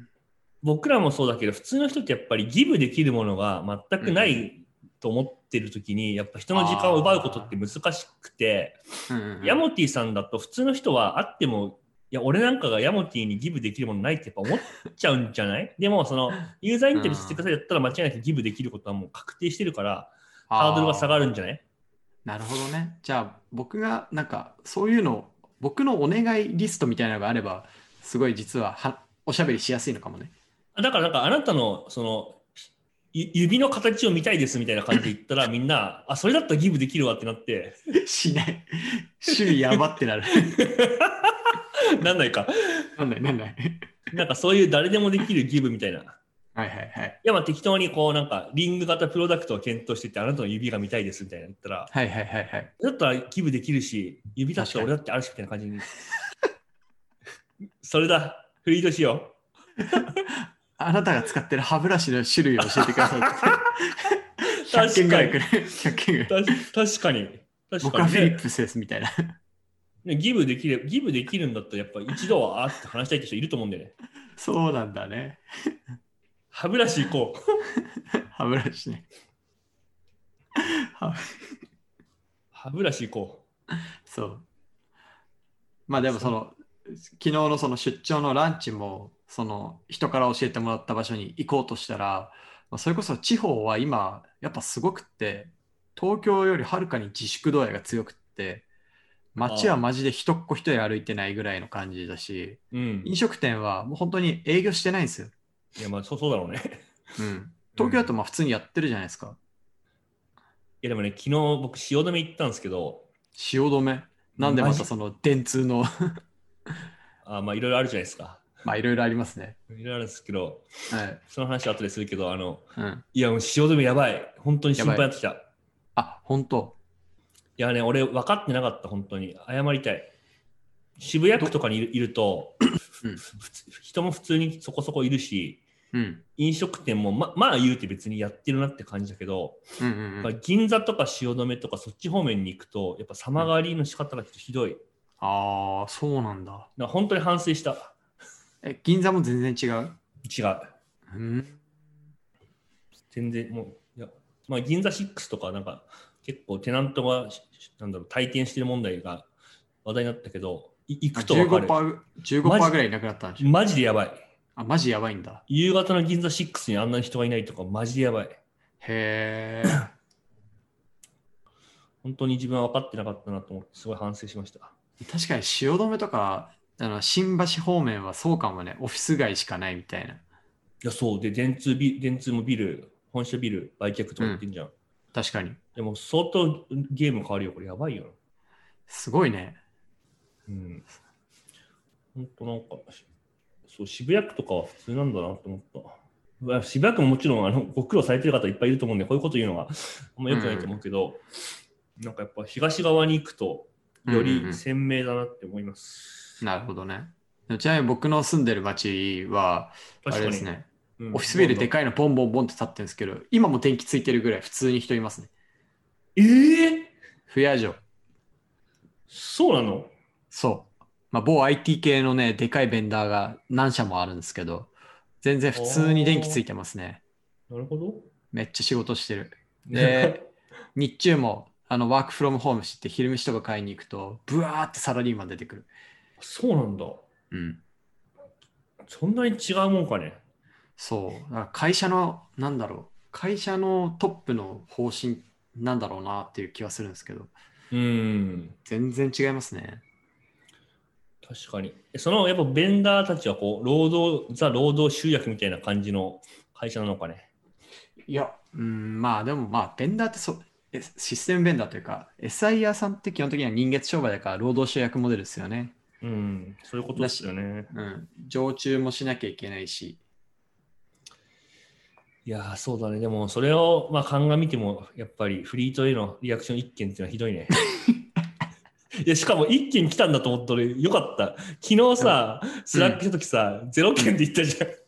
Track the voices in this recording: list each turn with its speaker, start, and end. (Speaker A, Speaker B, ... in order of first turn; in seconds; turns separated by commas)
Speaker A: 0.6-8.8, Speaker B: 4.0-4.4, Speaker B: 6.5-7.6, Speaker B: 9.1-9.6, Speaker A: 9.4-21.6, Speaker B: 16.9-17.4, Speaker B: 20.5-21.3, Speaker B: 22.2-30.3, Speaker A: 30.8-32.6, Speaker A: 33.1-37.8, Speaker B: 37.9-40.6, Speaker A: 39.3-39.8, Speaker A: 40.4-42.9, Speaker B: 43.0-43.9, Speaker A: 44.1-46.2, Speaker B: 46.5-47.2, Speaker A: 47.2-51.9, Speaker B: 51.9-52.7, Speaker A: 52.8-55.9, Speaker B: 54.6-54.9, Speaker A: 57.8-59.4, Speaker A: 59.9-60.2, Speaker B: 60.3-66.6, Speaker A: 62.8-63.6, Speaker A: 64.5-65.4, Speaker A: 66.3-68.4, Speaker B: 67.8-69.4, Speaker A: 70.0-73.9, Speaker B: 74.4-75.8, Speaker A: 76.5-77.4, Speaker B: 77.8-79.1, Speaker B: 80.6-81.3, Speaker A: 82.5-83.4, Speaker B: 84.1-84.5, Speaker B: 85.9-98.7, Speaker B: 99.3-105.3, Speaker A: 99.4-99.8, Speaker A: 102.7-103.1, Speaker A: 105.8-106.8, Speaker B: 107.2-109.4, Speaker A: 107.8-108.1, Speaker A: 110.8-113.1, Speaker B: 113.3-116.2, Speaker A: 114.4-114.9, Speaker A: 117.2-118.5, Speaker B: 118.6-119.6, Speaker A: 119.7-120.7, Speaker B: 120.9-121.2, Speaker A: 121.3-125.5, Speaker B: 122.8-123.0, Speaker B: 124.8-125.1, Speaker B: 126.0-126.8, Speaker A: 127.6-130.1, Speaker A: 131.0-132.7, Speaker A: 133.3-135.6, Speaker B: 135.9-136.2, Speaker A: 136.4-139.6, Speaker B: 139.8-140.3, Speaker A: 140.2-144.8, Speaker B: 145.2-146.7, Speaker A: 146.8-147.9, Speaker B: 148.6-150.0, Speaker A: 150.2-150.7, Speaker B: 151.1-151.6, Speaker A: 153.1-159.3, Speaker A: 159.8-161.8, Speaker B: 161.2-163.5, Speaker A: 162.4-162.8, Speaker A: 163.4-164.2, Speaker B: 164.6-165.4, Speaker A: 165.5-168.4, Speaker B: 168.8-169.9, Speaker A: 172.0-174.7, Speaker B: 175.0-180.2, Speaker A: 180.8-184.7, Speaker B: 185.1-185.6, Speaker A: 185.8-188.2, Speaker B: 188.9-189.6, Speaker A: 190.5-190.8, Speaker A: 192.2-193.0, Speaker A: 193.7-201.2, Speaker B: 200.3-200.7, Speaker A: 202.0-206.4, Speaker B: 204.1-204.6, Speaker B: 206.4-215.3, Speaker A: 210.0-211.7, Speaker A: 216.2-216.9, Speaker B: 217.3-217.8, Speaker A: 219.1-219.9, Speaker B: 220.3-227.0, Speaker A: 225.5-226.4, Speaker A: 227.5-228.1, Speaker B: 228.3-230.2, Speaker A: 229.7-230.2, Speaker B: 230.8-235.7, Speaker A: 236.2-237.0, Speaker B: 237.3-237.6, Speaker A: 238.9-240.2, Speaker B: 240.8-247.3, Speaker A: 247.7-248.6, Speaker B: 248.7-249.8, Speaker A: 251.2-257.3, Speaker B: 258.1-265.8, Speaker A: 266.0-267.7, Speaker B: 267.0-270.0, Speaker A: 272.3-277.6, Speaker B: 277.8-278.0, Speaker A: 279.0-284.8, Speaker B: 282.7-283.0